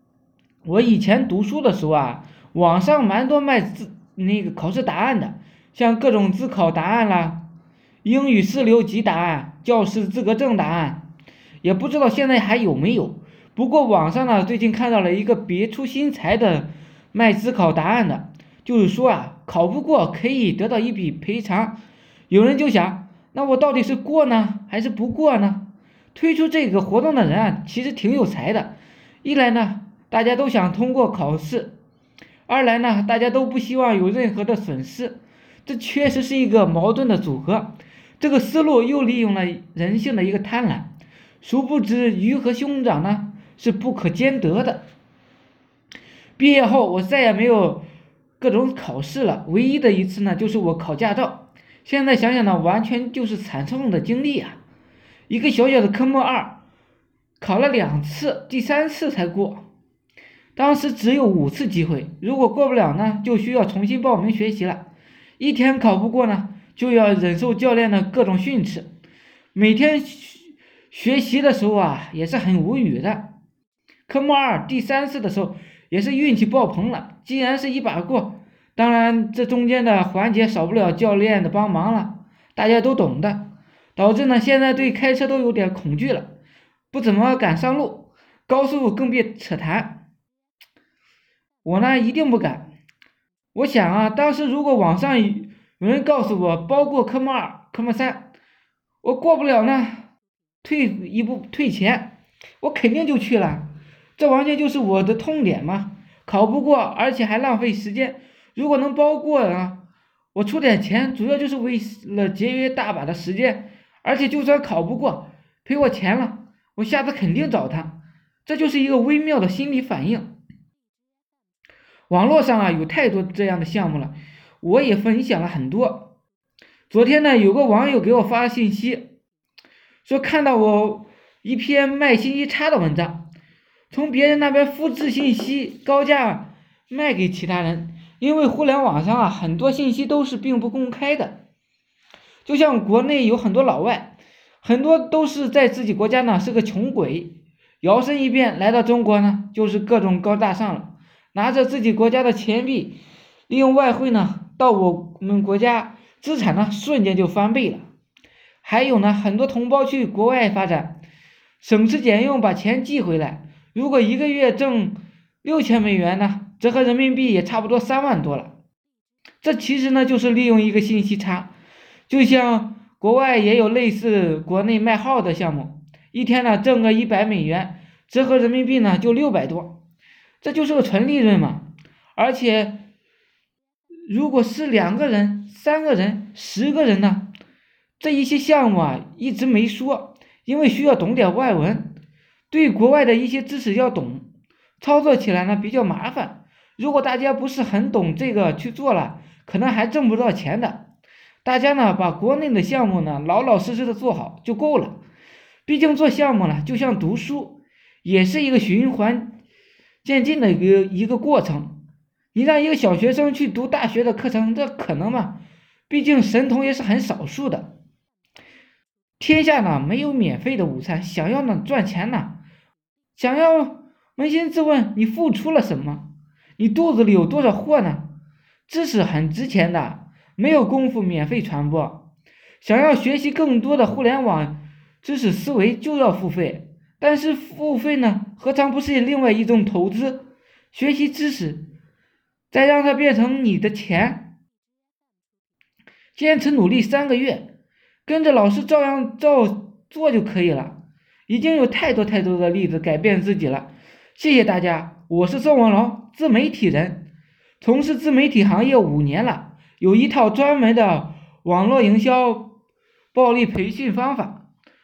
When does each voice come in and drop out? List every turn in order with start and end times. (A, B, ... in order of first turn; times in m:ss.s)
0:00.6-0:07.4 A
0:08.0-0:11.0 A
0:11.6-0:21.8 A
0:22.3-0:28.7 A
0:29.2-0:31.8 A
0:32.5-0:40.9 A
0:41.4-0:44.9 A
0:46.4-0:47.8 A
0:48.4-0:54.6 A
0:55.3-0:56.6 A
0:57.4-0:59.7 A
1:00.6-1:04.8 A
1:05.4-1:08.9 A
1:09.5-1:13.3 A
1:14.1-1:26.3 A
1:26.9-1:30.0 A
1:31.6-1:32.7 A
1:33.5-1:38.3 A
1:39.0-1:40.1 A
1:40.6-1:49.8 A
1:50.3-2:00.3 A
2:02.1-2:06.1 A
2:06.9-2:09.1 A
2:10.0-2:13.2 A
2:13.9-2:21.4 A
2:22.5-2:33.0 A
2:33.5-2:37.9 A
2:38.6-2:41.0 A
2:41.6-2:48.5 A
2:49.4-2:51.5 A
2:52.1-2:59.8 A
3:00.4-3:01.6 A
3:02.2-3:02.8 A
3:04.1-3:07.3 A
3:08.0-3:11.9 A
3:12.5-3:14.3 A
3:14.8-3:20.8 A
3:21.4-3:25.0 A
3:25.7-3:29.4 A
3:30.0-3:31.8 A
3:32.3-3:37.7 A
3:39.2-3:42.4 A
3:43.2-3:46.0 A
3:46.6-3:48.1 A
3:48.7-3:52.0 A
3:52.6-4:01.6 A
4:02.5-4:04.3 A
4:06.2-4:07.5 A
4:08.1-4:10.8 A
4:11.3-4:17.0 A
4:17.6-4:22.5 A
4:23.1-4:24.4 A